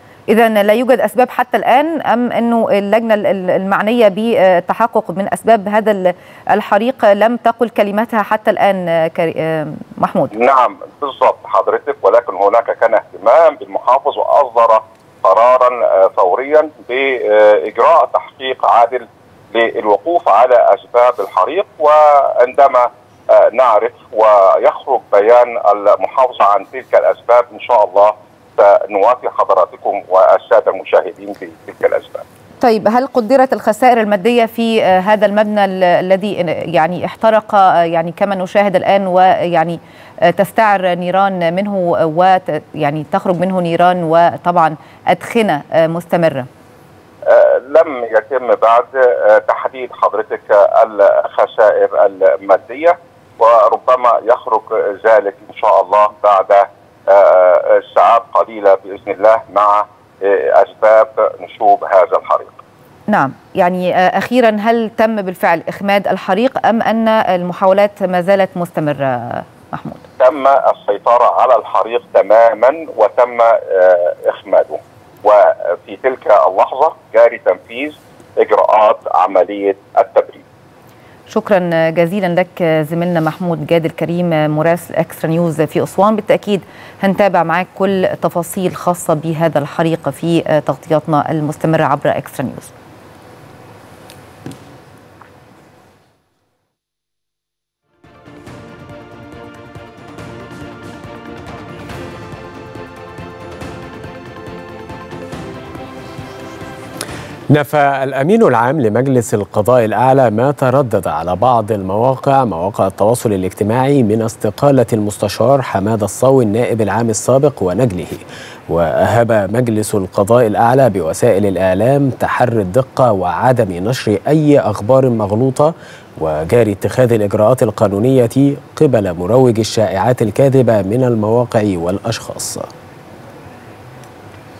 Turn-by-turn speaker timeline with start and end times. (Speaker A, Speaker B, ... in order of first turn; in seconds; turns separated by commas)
Speaker A: 0.3-10.3, Speaker B: 10.3-32.2, Speaker A: 32.6-46.5, Speaker B: 47.3-62.6, Speaker A: 63.1-70.0, Speaker B: 70.2-80.4, Speaker A: 81.3-92.7, Speaker C: 107.5-132.7